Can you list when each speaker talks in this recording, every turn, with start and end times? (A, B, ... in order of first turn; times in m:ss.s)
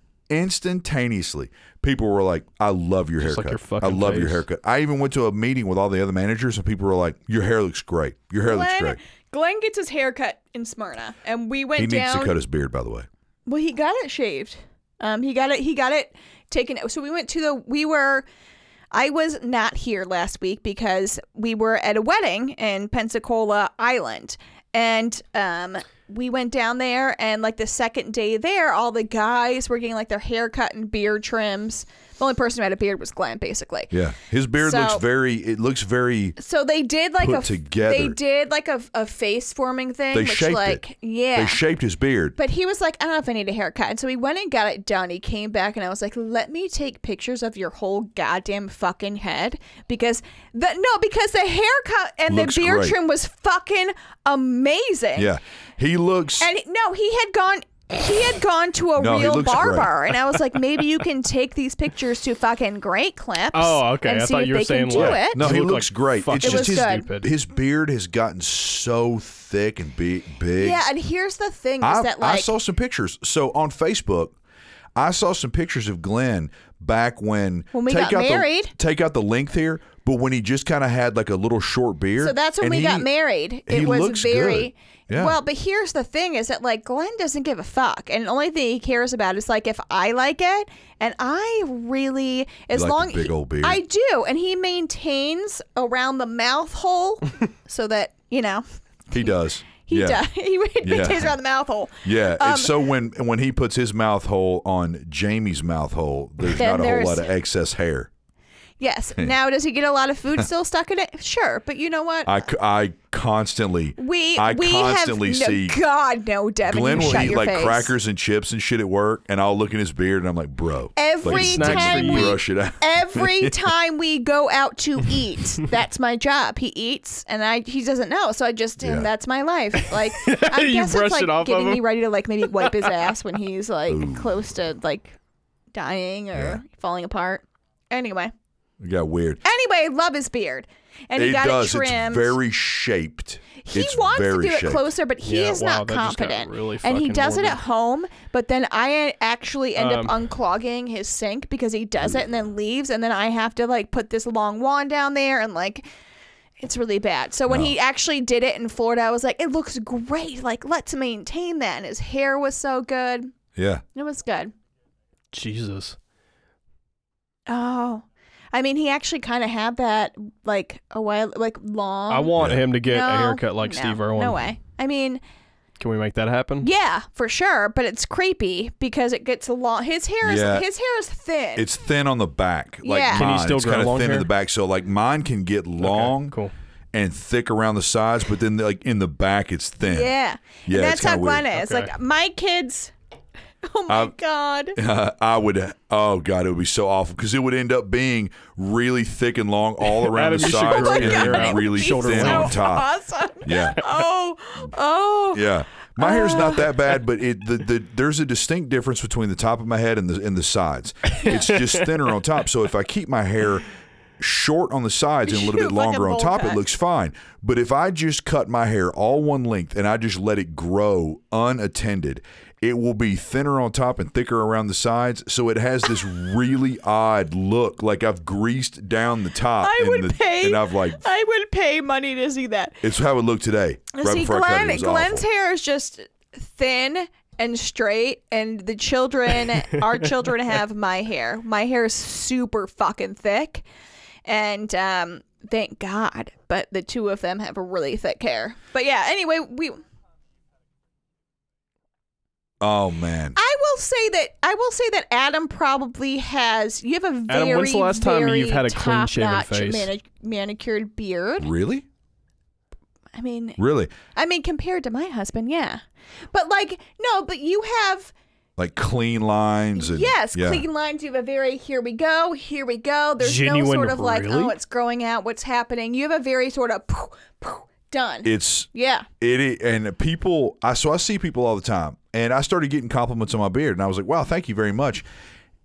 0:00.3-0:09.0 A
0:03.2-0:04.4 B
0:08.4-0:12.4 C
0:11.8-0:13.1 A
0:13.5-0:18.2 C
0:18.9-0:33.9 C
0:33.9-0:36.4 A
0:34.6-0:35.0 C
0:36.4-0:41.6 C
0:37.2-0:38.2 A
0:40.1-0:40.8 A
0:41.3-0:42.4 A
0:42.4-0:55.3 C
0:52.3-0:53.0 A
0:55.2-0:56.5 A
0:56.4-1:05.5 C
0:59.0-0:59.9 A
1:03.5-1:07.3 B
1:04.9-1:10.8 A
1:06.4-1:07.1 C
1:10.6-1:12.5 C
1:11.8-1:14.3 A
1:15.0-1:23.1 A
1:17.7-1:18.7 C
1:22.2-1:38.6 C
1:23.7-1:25.4 A
1:32.7-1:33.8 A
1:39.1-1:40.2 A
1:39.2-1:42.7 C
1:40.8-1:41.4 A
1:42.0-1:48.1 A
1:46.5-1:47.3 C
1:48.8-1:52.4 C
1:52.2-1:55.8 A
1:54.0-1:57.9 C
1:56.7-2:03.5 A
2:01.0-2:15.2 C
2:01.2-2:02.4 B
2:08.8-2:09.1 A
2:09.8-2:11.8 B
2:12.4-2:13.1 B
2:13.9-2:14.4 A
2:15.7-2:18.3 C
2:16.3-2:16.6 A
2:18.8-2:19.4 A
2:19.4-2:22.4 C
2:21.1-2:24.9 A
2:23.6-2:35.8 C
2:25.2-2:27.6 B
2:29.8-2:30.2 B
2:36.6-2:43.3 C
2:43.6-2:43.8 A
2:43.9-2:44.5 C
2:45.3-2:46.0 B
2:47.5-2:55.2 C
2:52.1-2:54.4 B
2:52.4-2:52.6 A
2:55.8-2:56.7 B
2:56.6-3:01.7 C
3:00.2-3:00.6 A
3:01.6-3:06.3 A
3:02.8-3:03.3 C
3:03.1-3:04.3 B
3:05.8-3:06.5 B
3:06.9-3:10.1 A
3:09.8-3:12.9 C
3:10.6-3:11.4 A
3:11.5-3:11.9 B
3:13.6-3:14.8 C
3:13.9-3:14.1 A
3:14.8-3:22.9 A
3:19.9-3:22.6 B
3:20.4-3:26.8 C
3:23.4-3:23.8 A
3:25.3-3:33.6 A
3:31.2-3:31.7 B
3:34.2-3:51.0 A
3:35.3-3:36.6 C
3:49.6-3:52.8 C
3:52.8-3:55.2 A
3:53.9-4:03.6 C
4:04.2-4:09.8 C
4:12.6-4:13.4 A
4:13.4-4:21.5 C
4:17.3-4:19.9 B
4:21.4-4:21.8 A
4:23.1-4:25.8 C
4:23.6-4:23.9 A
4:26.3-4:28.1 C
4:28.6-4:30.6 A
4:29.8-4:39.1 C
4:33.2-4:34.6 B
4:38.2-4:38.7 A
4:39.2-4:45.0 A